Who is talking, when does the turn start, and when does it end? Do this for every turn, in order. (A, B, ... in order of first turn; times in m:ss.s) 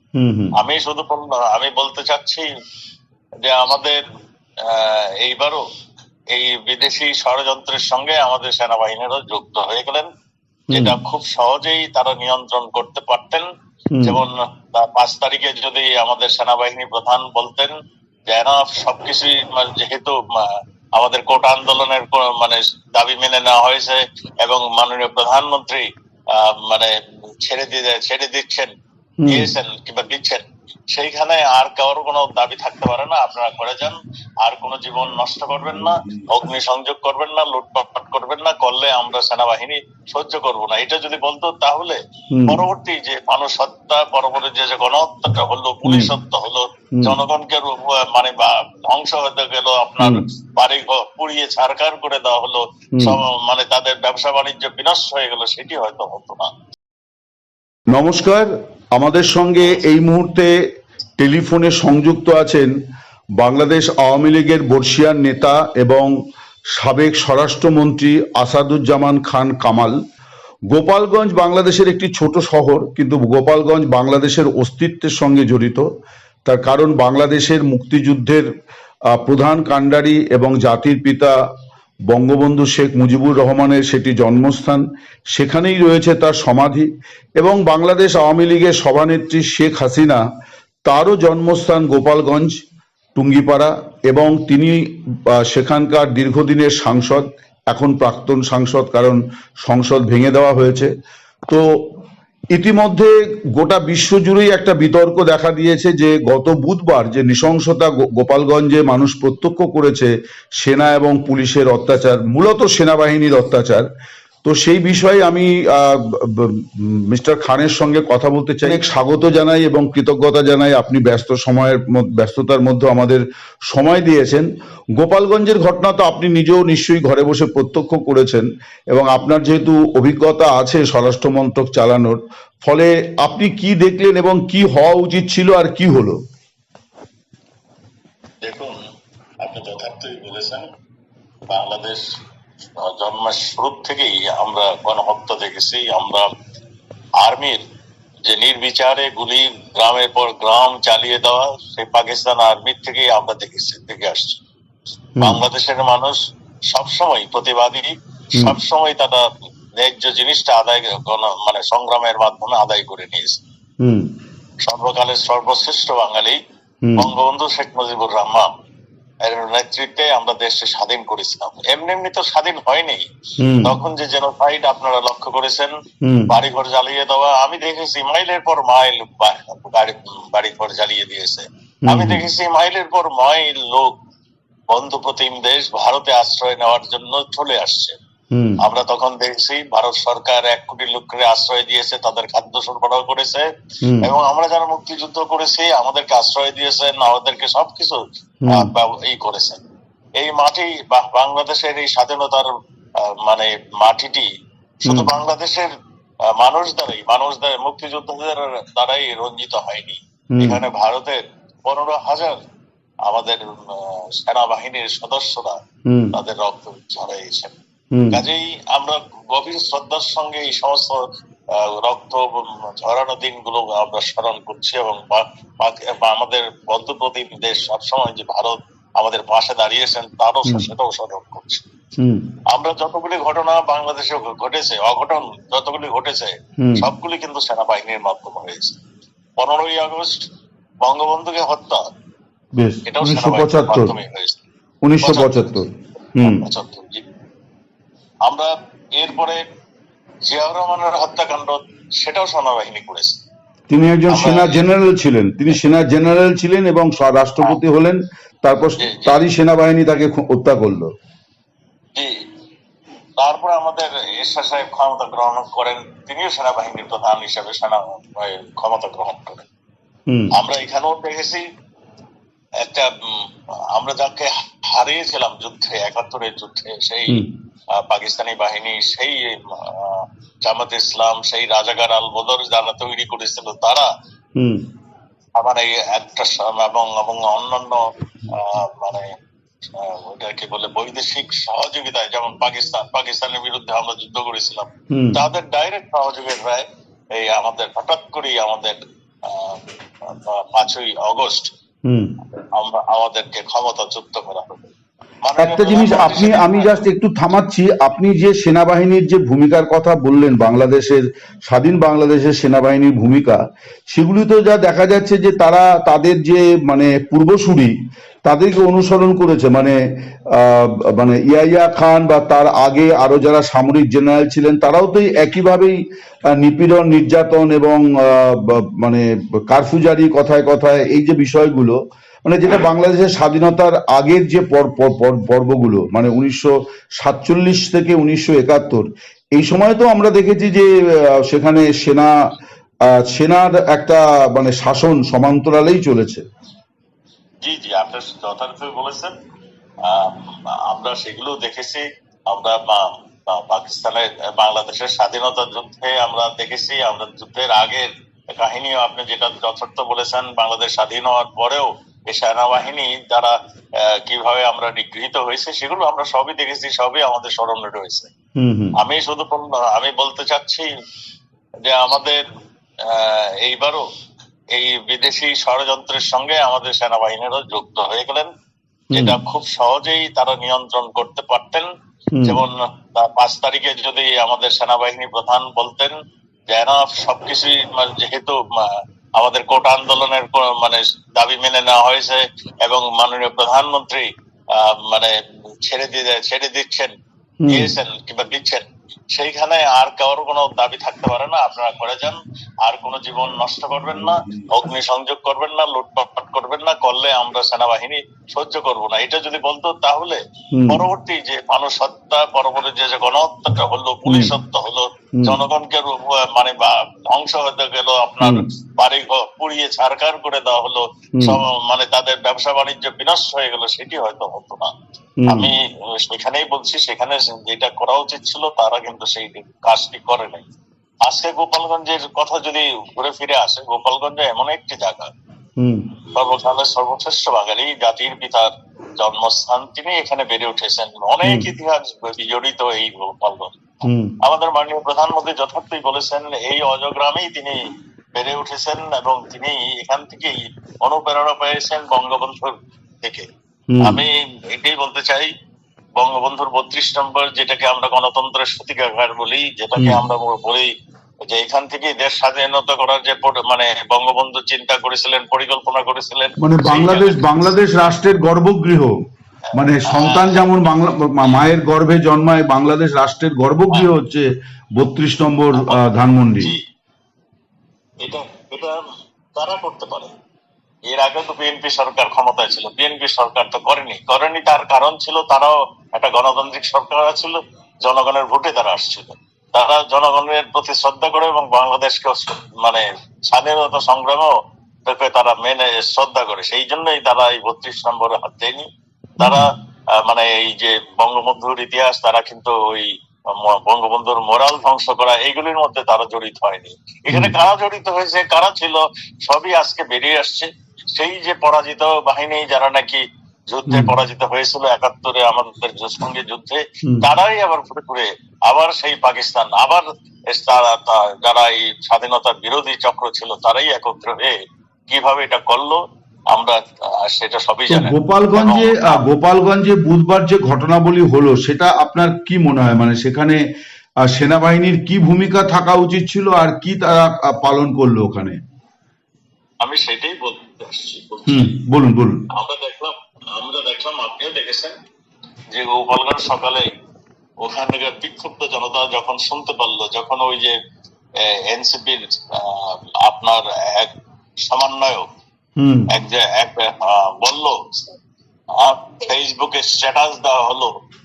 0:00.2-0:00.6 A
0:00.6-0:02.5 B
0:03.4-0:04.0 B
0:04.6-0:05.6 B
0:06.3-0:10.1 B
0:10.7-0:11.0 A
0:10.7-0:13.5 B
0:13.9-0:14.2 A
0:14.0-0:17.8 B
0:18.3-0:28.7 B
0:29.2-0:29.5 A
0:29.3-0:56.5 B
0:35.7-0:36.2 A
0:42.3-0:42.6 A
0:45.8-0:46.1 A
0:57.9-1:00.5 A
1:01.2-1:02.7 A
1:03.4-1:06.1 A
1:06.8-1:10.0 A
1:10.7-1:15.8 A
1:16.5-1:18.5 A
1:19.1-1:21.4 A
1:22.1-1:26.9 A
1:27.4-1:30.2 A
1:30.9-1:32.6 A
1:33.2-1:40.9 A
1:41.5-1:41.8 A
1:42.5-1:53.9 A
1:54.4-2:04.5 A
2:05.0-2:16.2 A
2:18.4-2:18.8 B
2:19.4-2:20.7 B
2:21.5-2:22.1 B
2:22.8-2:26.3 B
2:27.2-2:27.6 B
2:28.2-2:34.4 B
2:35.2-2:35.4 A
2:35.2-2:36.2 B
2:36.7-2:43.4 B
2:43.8-2:44.1 A
2:44.6-2:46.4 B
2:47.0-2:48.5 B
2:49.2-2:53.0 B
2:53.4-2:53.8 A
2:53.6-2:55.8 B
2:56.0-2:56.3 A
2:56.3-3:03.9 B
3:01.8-3:02.2 A
3:04.7-3:08.0 B
3:08.3-3:08.6 A
3:08.6-3:13.5 B
3:13.8-3:14.1 A
3:14.0-3:19.6 B
3:18.4-3:18.7 A
3:20.2-3:24.3 B
3:24.8-3:25.7 B
3:26.3-3:32.4 B
3:30.3-3:30.6 A
3:33.1-3:35.6 B
3:35.9-3:36.2 A
3:36.1-3:37.6 B
3:37.9-3:38.2 A
3:38.1-3:41.0 B
3:41.5-3:51.6 B
3:52.0-3:52.3 A
3:52.5-3:58.8 B
3:56.6-3:56.9 A
3:59.4-4:00.3 B
4:00.8-4:01.8 B
4:02.6-4:03.9 A
4:02.9-4:04.4 B
4:04.8-4:06.4 A
4:05.0-4:05.6 B
4:06.2-4:07.0 B
4:08.3-4:09.4 B
4:10.3-4:13.2 B
4:13.7-4:20.9 A
4:14.1-4:14.6 B
4:18.8-4:19.2 B
4:23.2-4:29.5 B
4:30.4-4:31.4 B
4:32.6-4:37.2 B
4:37.8-4:43.9 B
4:44.4-4:44.6 A
4:45.4-4:49.1 B
4:49.7-5:01.5 B
4:54.9-4:55.2 A
5:01.9-5:02.1 A
5:02.6-5:04.7 B
5:05.2-5:06.8 B
5:05.4-5:13.4 A
5:13.9-5:17.7 A
5:18.2-5:19.8 A
5:20.3-5:25.8 A
5:26.3-5:38.8 A
5:39.4-5:42.1 A
5:43.0-5:46.2 A
5:47.4-5:49.1 B
5:49.8-6:08.1 B
6:08.4-6:08.8 A
6:08.8-6:10.7 B
6:11.6-6:12.2 B
6:12.8-6:13.8 B
6:14.5-6:18.3 B
6:18.9-6:19.2 A
6:18.9-6:21.7 B
6:22.2-6:26.0 B
6:26.5-6:35.2 B
6:35.7-6:36.9 B
6:37.4-6:37.7 A
6:37.5-7:04.7 B
6:43.9-6:44.5 A
6:50.5-6:50.8 A
6:54.1-6:54.3 A
7:01.2-7:01.4 A
7:05.2-7:05.5 A
7:05.3-7:10.5 B
7:11.0-7:15.1 B
7:15.6-7:15.9 A
7:16.1-7:27.6 B
7:21.2-7:21.5 A
7:23.8-7:24.2 A
7:28.2-7:33.3 B
7:33.7-7:34.0 A
7:33.8-7:35.3 B
7:36.0-7:40.7 B
7:41.3-7:47.5 B
7:46.4-7:49.0 A
7:49.6-7:56.5 A
7:49.9-7:50.5 B
7:55.5-7:56.6 B
7:58.0-7:58.8 B
7:59.4-8:00.1 B
8:00.9-8:14.3 B
8:14.9-8:18.7 B
8:19.2-8:19.5 A
8:19.2-8:44.3 B
8:33.7-8:34.0 A
8:44.9-8:49.0 B
8:47.7-8:53.4 A
8:54.0-8:58.4 A
8:59.6-9:01.5 B
9:01.3-9:02.2 A
9:02.3-9:04.8 B
9:05.5-9:06.7 B
9:07.4-9:10.6 B
9:11.2-9:13.9 B
9:14.4-9:15.1 B
9:15.6-9:15.9 A
9:15.9-9:18.0 B
9:18.6-9:20.7 B